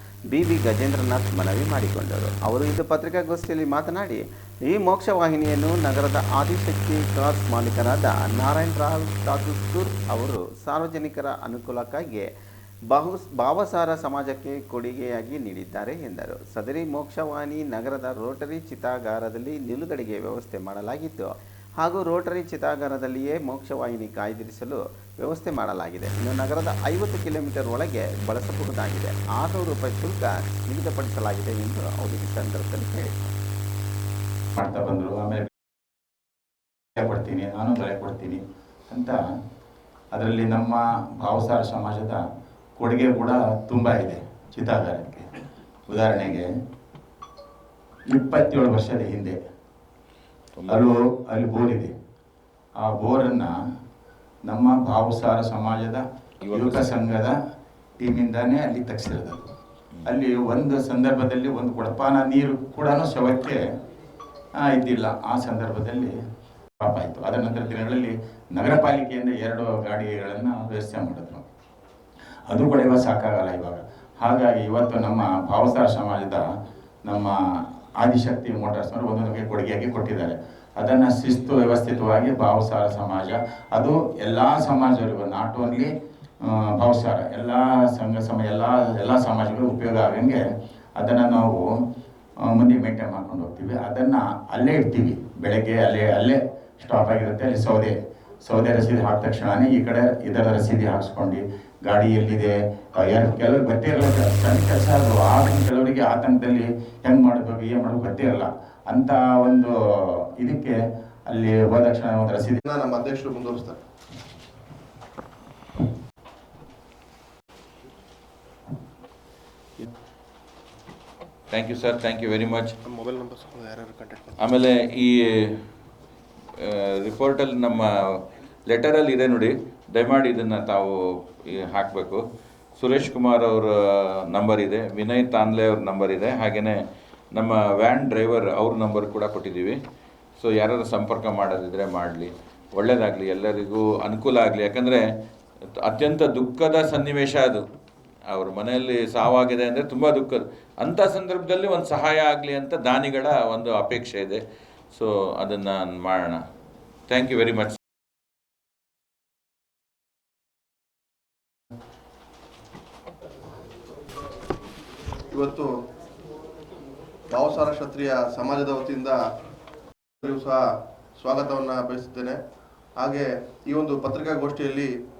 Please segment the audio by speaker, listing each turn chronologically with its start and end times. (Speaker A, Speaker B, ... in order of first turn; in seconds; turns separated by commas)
Speaker A: 0.3-12.2, Speaker A: 12.9-33.3, Speaker B: 34.6-35.5, Speaker B: 37.0-39.2, Speaker B: 40.1-42.2, Speaker B: 42.8-45.2, Speaker B: 45.9-46.5, Speaker B: 48.1-49.3, Speaker C: 50.6-50.9, Speaker B: 50.7-51.9, Speaker B: 52.8-53.5, Speaker B: 54.5-57.3, Speaker C: 56.4-56.9, Speaker B: 58.0-59.4, Speaker B: 60.0-63.6, Speaker B: 64.6-66.1, Speaker B: 66.8-71.4, Speaker B: 72.5-76.4, Speaker B: 77.1-77.3, Speaker B: 78.0-85.9, Speaker B: 86.4-90.4, Speaker B: 91.0-91.7, Speaker B: 92.4-110.8, Speaker B: 111.3-112.6, Speaker D: 112.6-113.8, Speaker C: 121.5-122.8, Speaker D: 122.8-124.3, Speaker C: 124.4-125.6, Speaker C: 126.6-132.2, Speaker C: 132.8-136.8, Speaker C: 137.3-139.8, Speaker C: 140.4-145.0, Speaker C: 145.8-147.6, Speaker C: 148.3-156.4, Speaker C: 157.1-157.8, Speaker D: 165.3-165.7, Speaker D: 167.3-169.2, Speaker D: 170.2-170.6, Speaker D: 171.2-172.4, Speaker D: 173.0-174.9